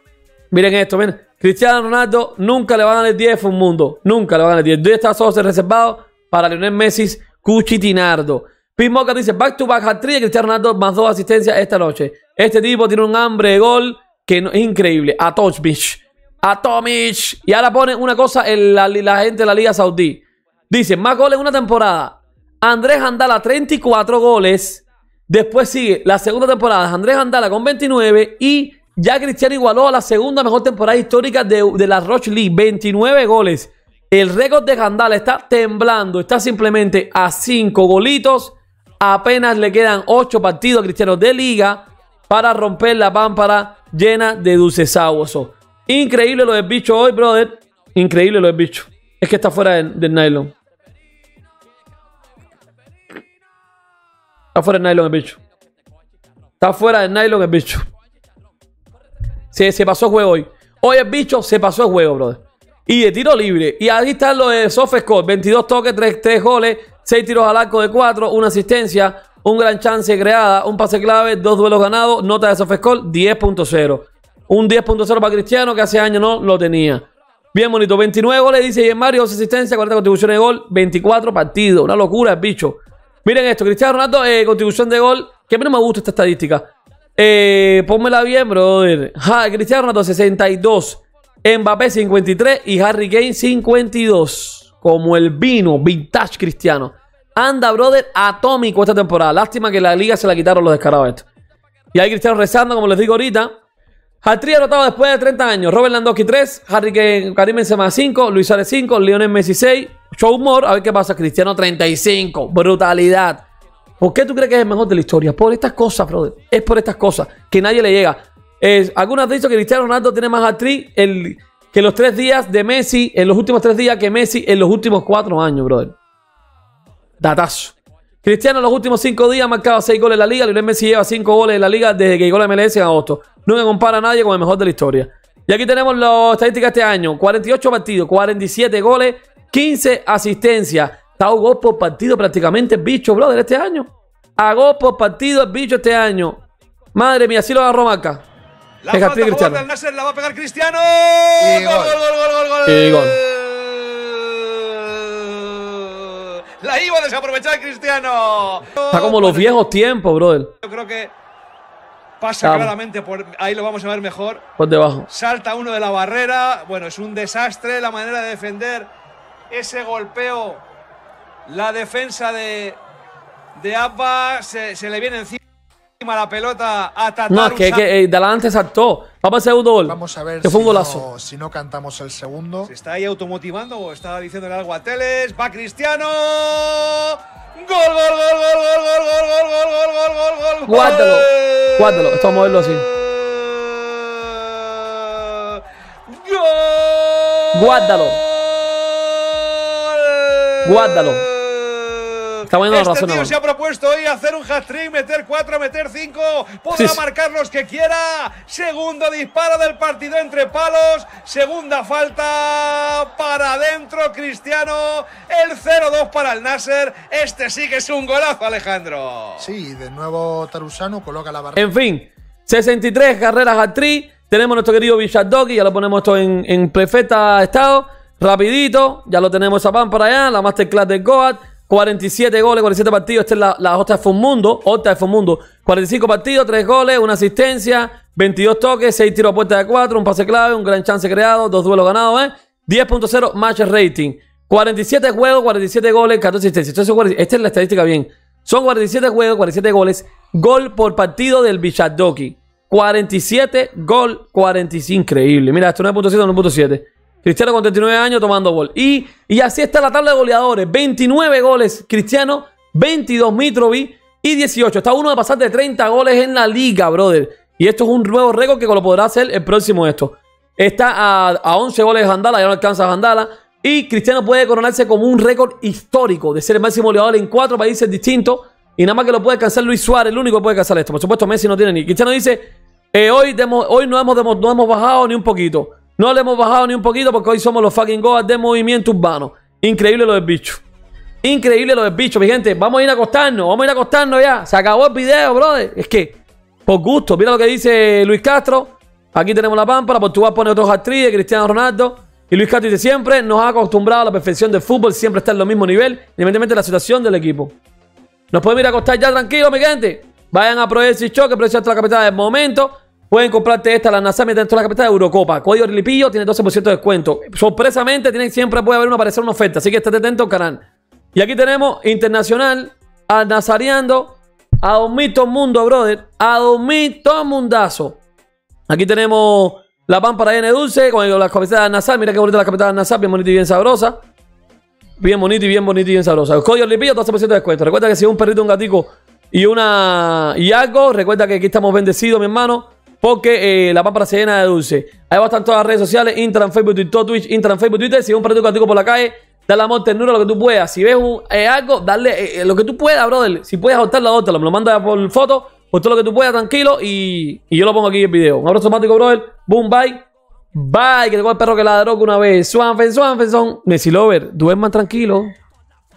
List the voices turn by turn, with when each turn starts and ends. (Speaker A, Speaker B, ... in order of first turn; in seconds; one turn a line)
Speaker A: 0.5-50.5
Speaker A: 54.5-55.4
Speaker A: 56.6-57.8
Speaker A: 59.5-101.2
Speaker A: 101.9-103.5
Speaker A: 104.2-113.4
Speaker A: 114.0-125.9
Speaker A: 127.2-146.4
Speaker A: 146.9-148.2
Speaker B: 148.8-159.6
Speaker A: 148.9-149.6
Speaker C: 151.4-152.0
Speaker A: 152.7-153.2
Speaker A: 158.9-160.5
Speaker B: 160.6-161.1
Speaker B: 162.2-164.4
Speaker A: 162.4-162.7
Speaker A: 164.6-165.1
Speaker B: 165.1-168.9
Speaker B: 169.5-170.6
Speaker B: 171.5-172.8
Speaker B: 173.5-175.4
Speaker B: 176.0-177.8
Speaker A: 177.3-181.1
Speaker C: 179.8-182.7
Speaker B: 182.7-192.2
Speaker A: 190.7-192.8
Speaker B: 192.8-219.5
Speaker A: 197.5-198.2
Speaker A: 200.6-201.2
Speaker A: 202.5-203.3
Speaker A: 206.7-207.0
Speaker C: 219.4-221.7
Speaker A: 221.6-290.6
Speaker A: 291.2-307.5
Speaker A: 308.3-320.6
Speaker A: 321.1-328.0
Speaker A: 328.7-334.0
Speaker A: 335.0-365.3